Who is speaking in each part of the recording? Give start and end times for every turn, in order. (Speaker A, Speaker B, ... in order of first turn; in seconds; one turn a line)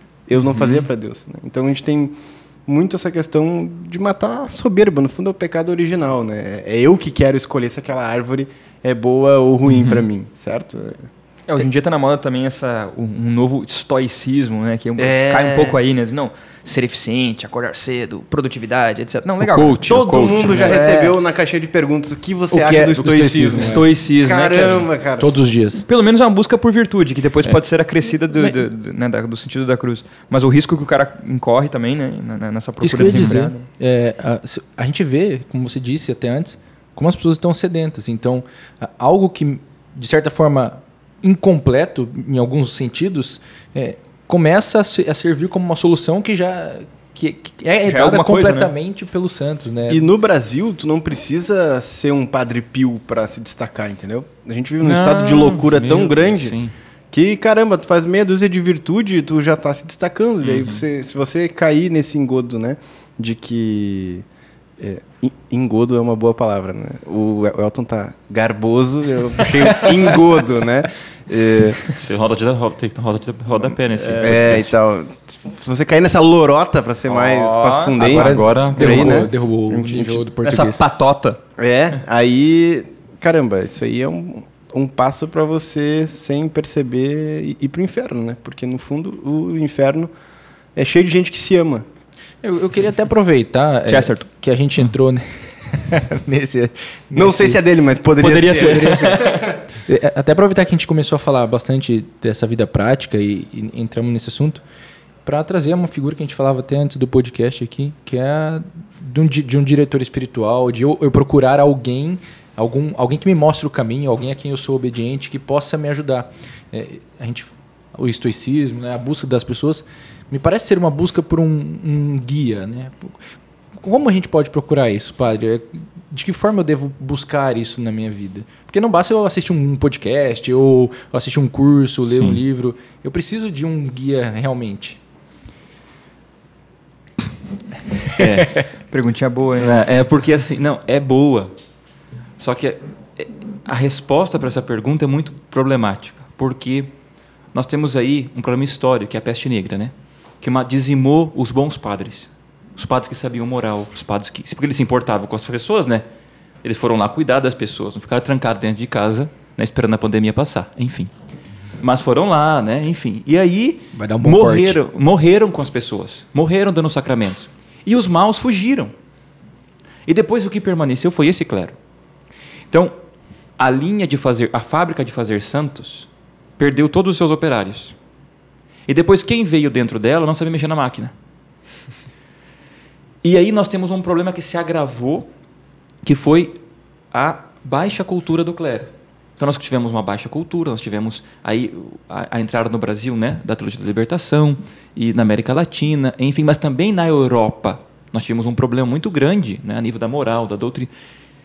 Speaker A: 0.3-11.1
Speaker B: 0.4-0.9
Speaker B: 9.7-10.0
Speaker C: 11.5-21.1
Speaker A: 15.0-15.8
Speaker B: 19.4-20.7
Speaker A: 19.8-25.3
Speaker D: 22.5-23.9
Speaker C: 23.5-24.9
Speaker D: 25.2-25.8
Speaker C: 25.9-33.6
Speaker D: 28.3-28.6
Speaker D: 32.8-50.1
Speaker C: 47.8-48.7
Speaker A: 49.9-56.6
Speaker B: 54.8-56.7
Speaker A: 57.1-64.2
Speaker B: 60.4-60.8
Speaker A: 64.8-71.8
Speaker B: 72.0-74.7
Speaker C: 74.0-74.3
Speaker A: 74.2-80.2
Speaker C: 77.1-78.0
Speaker D: 78.0-80.9
Speaker B: 78.0-79.2
Speaker C: 80.4-81.4
Speaker A: 81.6-90.1
Speaker A: 90.7-91.9
Speaker D: 92.4-97.6
Speaker C: 93.9-94.2
Speaker A: 97.1-99.5
Speaker B: 98.2-99.4
Speaker D: 98.5-99.3
Speaker C: 98.7-99.2
Speaker D: 99.8-104.6
Speaker D: 105.2-123.2
Speaker D: 123.7-135.0
Speaker B: 132.1-132.4
Speaker B: 138.1-138.6
Speaker C: 138.9-139.8
Speaker B: 139.6-141.5
Speaker B: 142.4-146.9
Speaker B: 147.5-156.0
Speaker B: 156.6-161.1
Speaker B: 161.8-168.9
Speaker D: 163.9-164.8
Speaker B: 170.1-171.8
Speaker B: 173.6-177.9
Speaker B: 178.9-181.1
Speaker B: 183.2-185.3
Speaker B: 186.0-186.6
Speaker B: 187.1-200.9